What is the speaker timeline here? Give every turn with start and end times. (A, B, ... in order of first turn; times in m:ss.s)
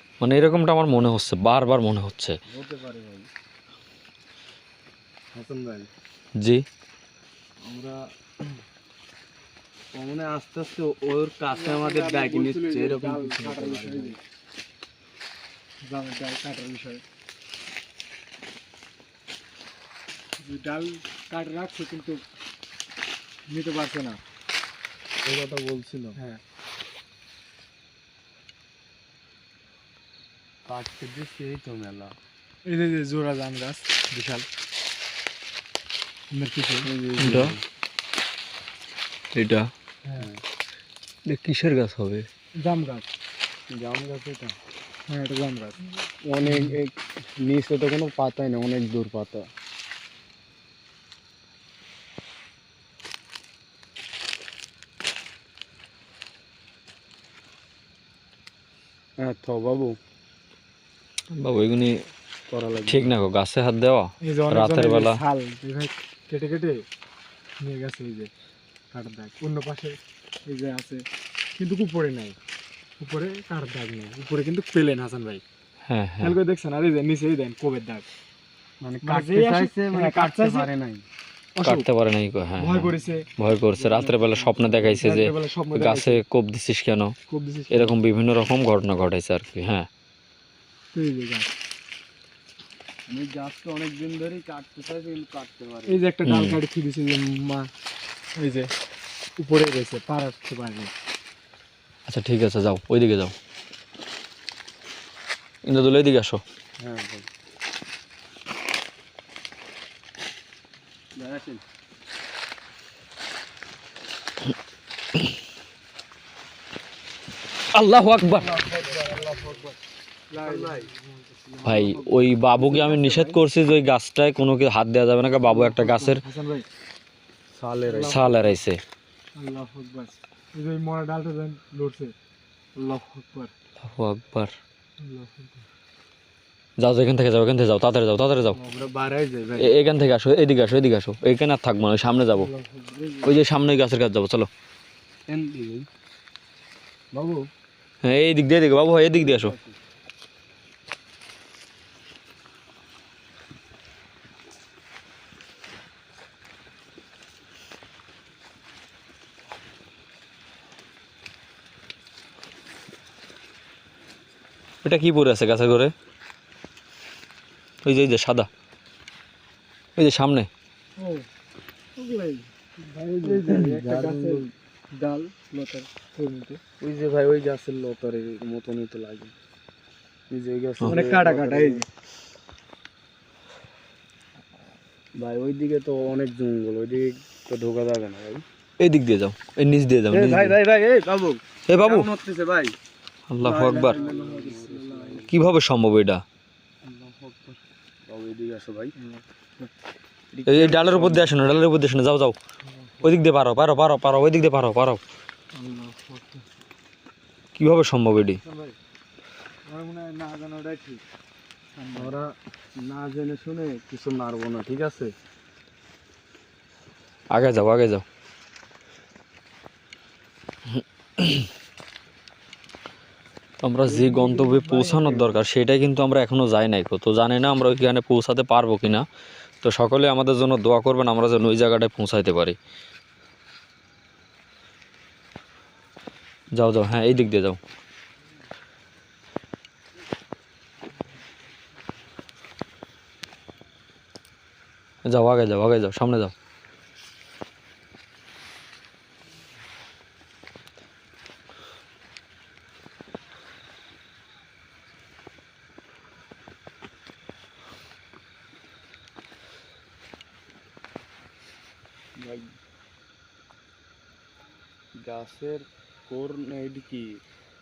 0:00.2-0:02.4 A
0:02.5-0:03.3 B
0:05.3-0:05.9 B
0:06.4-0:06.6 A
0:07.6-0:08.0 B
0:09.9-0:14.2 B
0:11.5-0:14.2 C
0:15.8-0:17.0 C
0:20.4-0:22.2 C
0:23.5-0:24.2 C
0:25.2-0:26.2 B
0:26.2-0:26.4 C
0:30.7-0:32.2 B
0:32.7-0:34.5 C
0:36.3-0:36.9 C
0:36.8-0:37.6 B
0:37.2-0:37.6 A
0:39.3-0:39.7 A
0:41.3-0:42.3 A
0:42.6-0:43.1 C
0:43.7-0:44.6 B
0:45.1-0:46.8 C
0:46.2-0:49.5 B
0:59.2-1:00.0 B
1:01.4-1:02.0 A
1:02.5-1:03.1 B
1:02.9-1:05.2 A
1:04.2-1:06.8 C
1:07.6-1:08.3 C
1:08.9-1:11.0 C
1:11.6-1:12.4 C
1:13.0-1:15.4 C
1:15.9-1:16.4 A
1:16.2-1:18.0 C
1:18.8-1:21.0 B
1:19.0-1:20.7 C
1:21.6-1:21.9 C
1:21.6-1:27.2 A
1:22.6-1:26.2 C
1:27.3-1:28.0 C
1:27.7-1:29.9 A
1:30.9-1:31.5 C
1:33.1-1:36.0 B
1:35.9-1:37.7 C
1:36.2-1:36.6 A
1:38.4-1:38.7 C
1:39.4-1:40.9 C
1:42.1-1:43.3 A
1:45.6-1:46.4 A
1:46.8-1:47.3 B
1:51.2-1:51.6 B
1:57.7-1:58.5 A
1:58.4-1:59.8 C
1:58.6-1:59.4 B
2:00.3-2:03.4 C
2:00.4-2:00.9 B
2:01.6-2:06.2 A
2:05.4-2:06.6 C
2:07.5-2:08.2 B
2:07.8-2:08.6 C
2:08.1-2:08.8 A
2:09.4-2:12.1 C
2:12.8-2:13.5 C
2:13.8-2:14.5 A
2:15.0-2:15.6 C
2:16.8-2:18.6 A
2:18.6-2:19.8 B
2:19.6-2:22.5 A
2:22.3-2:23.4 C
2:23.2-2:24.5 A
2:25.3-2:25.9 B
2:27.1-2:27.5 B
2:28.0-2:29.6 A
2:29.1-2:29.8 B
2:44.8-2:45.9 A
2:47.8-2:48.5 A
2:50.0-2:50.5 A
2:51.0-2:51.3 C
2:52.0-2:54.4 C
2:53.2-2:54.5 B
2:55.0-2:56.6 C
2:56.8-2:59.3 B
3:00.3-3:01.8 B
3:00.9-3:01.9 C
3:05.2-3:08.4 B
3:08.8-3:10.6 A
3:10.1-3:12.8 B
3:11.7-3:12.1 A
3:13.3-3:14.0 A
3:13.4-3:15.3 C
3:13.4-3:15.3 B
3:15.3-3:16.2 A
3:16.9-3:17.6 C
3:18.1-3:18.9 B
3:19.0-3:19.7 C
3:20.3-3:21.4 B
3:20.5-3:22.4 A
3:22.7-3:23.0 C
3:23.0-3:25.0 A
3:25.5-3:26.4 C
3:27.6-3:28.4 A
3:28.4-3:28.8 C
3:29.7-3:31.0 C
3:31.8-3:32.1 C
3:32.0-3:35.1 B
3:37.3-3:38.0 A
3:40.7-3:41.5 A
3:43.6-3:49.1 A
3:43.9-3:45.3 C
3:49.6-3:52.6 A
3:56.5-3:57.6 A
4:05.0-4:06.3 A
4:22.2-4:22.5 B
4:25.0-4:27.2 B